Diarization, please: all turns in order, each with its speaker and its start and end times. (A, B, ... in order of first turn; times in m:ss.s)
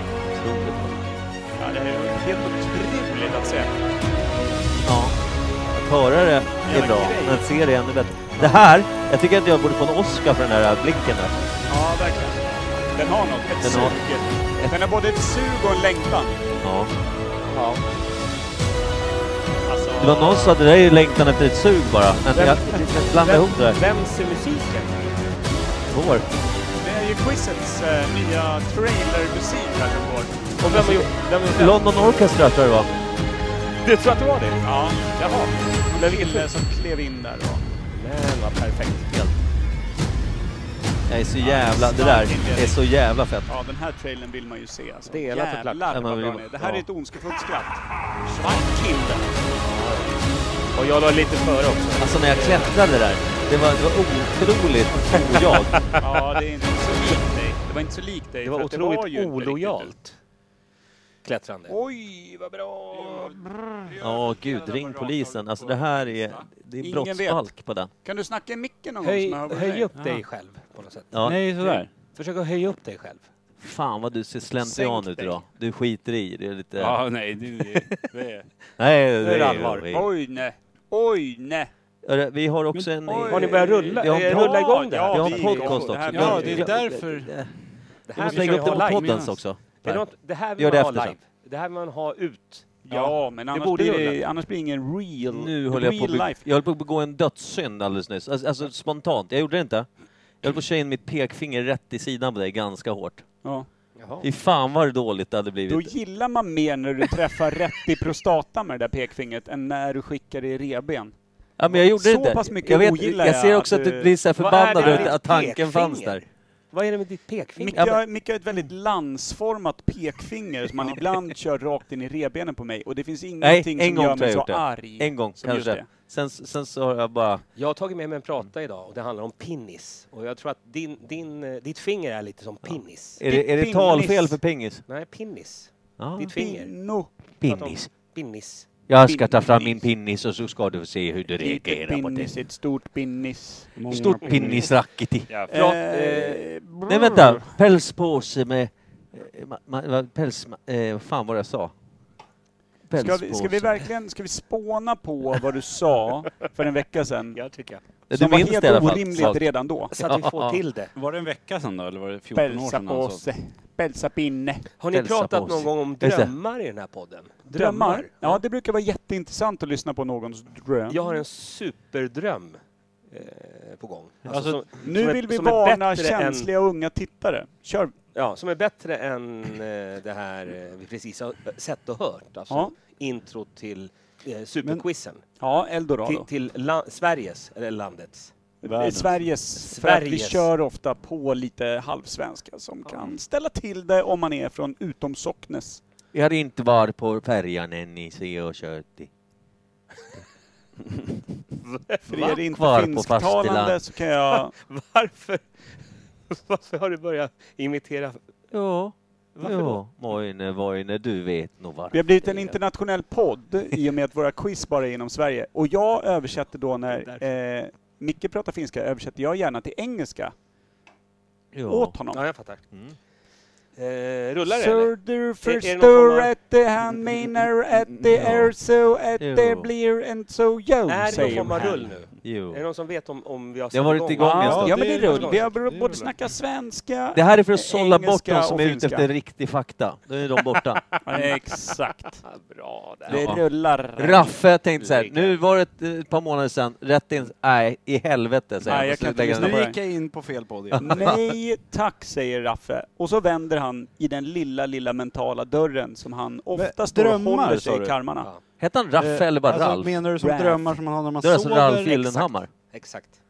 0:00.3-0:01.1 A
0:01.6-0:03.7 B
0:04.8-0:05.2 A
0:05.7-0:11.3 A
0:06.6-0:07.4 B
0:11.7-0:16.4 B
0:13.6-0:14.0 A
0:16.6-0:16.9 A
0:17.5-0:17.8 C
0:19.7-0:20.5 B
0:20.0-0:23.8 A
0:22.3-0:25.1 C
0:25.9-0:26.3 A
0:26.8-0:30.6 B
0:30.6-0:32.0 C
0:30.7-0:32.9 A
0:33.8-0:34.6 C
0:34.6-0:37.6 B
0:35.9-0:36.5 C
0:37.9-0:39.4 C
0:41.1-0:43.5 A
0:41.4-0:42.8 B
0:43.5-0:49.4 B
0:45.1-0:46.0 C
0:45.9-0:46.7 A
0:49.6-0:50.2 C
0:50.7-0:52.7 C
0:52.0-0:55.8 A
0:55.2-0:56.4 C
0:56.0-0:59.9 B
0:58.4-1:00.2 C
1:01.2-1:01.8 C
1:01.7-1:03.9 B
1:04.0-1:07.9 A
1:06.8-1:07.5 B
1:08.0-1:09.9 B
1:09.0-1:13.2 C
1:09.9-1:10.2 D
1:11.1-1:11.4 A
1:11.2-1:11.9 D
1:13.6-1:17.0 A
1:14.6-1:15.4 C
1:16.8-1:18.5 D
1:18.8-1:20.1 A
1:19.2-1:19.9 C
1:19.9-1:21.7 B
1:22.0-1:27.5 A
1:23.0-1:26.7 B
1:23.3-1:26.5 C
1:26.1-1:27.3 D
1:28.1-1:29.1 C
1:28.1-1:30.0 A
1:28.2-1:29.4 D
1:29.8-1:34.2 C
1:30.6-1:31.2 A
1:32.8-1:36.4 B
1:35.3-1:39.9 A
1:40.4-1:43.2 A
1:44.0-1:44.2 C
1:44.2-1:45.9 A
1:45.7-1:51.1 B
1:51.6-1:56.2 A
1:51.7-1:54.1 B
1:54.4-1:58.0 C
1:54.8-1:55.2 B
1:57.6-2:05.8 B
2:03.4-2:07.4 A
2:07.6-2:13.2 C
2:12.6-2:14.8 A
2:13.3-2:14.4 B
2:14.9-2:16.7 C
2:16.0-2:16.3 A
2:16.3-2:17.1 B
2:17.4-2:17.9 A
2:17.4-2:18.7 C
2:18.9-2:22.3 A
2:19.0-2:19.8 B
2:21.4-2:23.8 B
2:23.8-2:24.7 D
2:23.9-2:25.3 A
2:25.4-2:26.4 C
2:25.5-2:27.5 B
2:26.9-2:31.7 A
2:32.9-2:33.8 A
2:32.9-2:37.4 B
2:37.3-2:37.8 C
2:38.1-2:40.6 A
2:38.1-2:39.9 B
2:39.9-2:40.9 C
2:40.9-2:43.2 D
2:42.3-2:44.6 B
2:44.8-2:48.4 C
2:44.9-2:46.3 A
2:47.5-2:51.0 B
2:50.9-2:52.6 C
2:53.1-2:56.5 C
2:54.3-2:54.7 D
2:54.8-2:57.9 B
2:58.1-3:05.2 C
3:05.4-3:06.2 B
3:06.0-3:08.3 C
3:08.6-3:15.8 B
3:08.6-3:09.2 D
3:09.6-3:10.5 C
3:12.8-3:13.1 C
3:16.1-3:19.1 A
3:21.7-3:22.4 C
3:22.1-3:24.5 B
3:22.5-3:23.8 A
3:24.3-3:25.4 C
3:26.3-3:28.2 C
3:28.5-3:32.3 A
3:29.4-3:29.8 C
3:31.9-3:40.3 B
3:32.2-3:32.5 C
3:36.9-3:37.3 C
3:41.5-3:42.0 A
3:41.7-3:42.2 B
3:42.1-3:42.6 C
3:42.7-3:43.0 A
3:43.8-3:46.3 C
3:44.5-3:51.9 B
3:47.0-3:48.5 D
3:49.2-3:49.7 A
3:50.9-3:55.5 C
3:51.2-3:51.9 D
3:52.2-3:52.6 A
3:53.7-3:54.8 A
3:54.2-3:59.1 B
3:54.3-3:56.1 D
3:57.1-4:00.8 A
4:00.9-4:01.4 C
4:01.0-4:02.2 B
4:02.2-4:03.3 C
4:03.1-4:04.4 B
4:03.1-4:03.4 A
4:04.0-4:09.7 A
4:04.8-4:05.4 C
4:08.6-4:09.8 B
4:08.7-4:11.2 D
4:10.8-4:18.3 B
4:16.5-4:18.0 D
4:18.6-4:20.0 A
4:19.0-4:22.3 D
4:20.2-4:20.8 B
4:21.2-4:22.5 A
4:22.7-4:23.2 C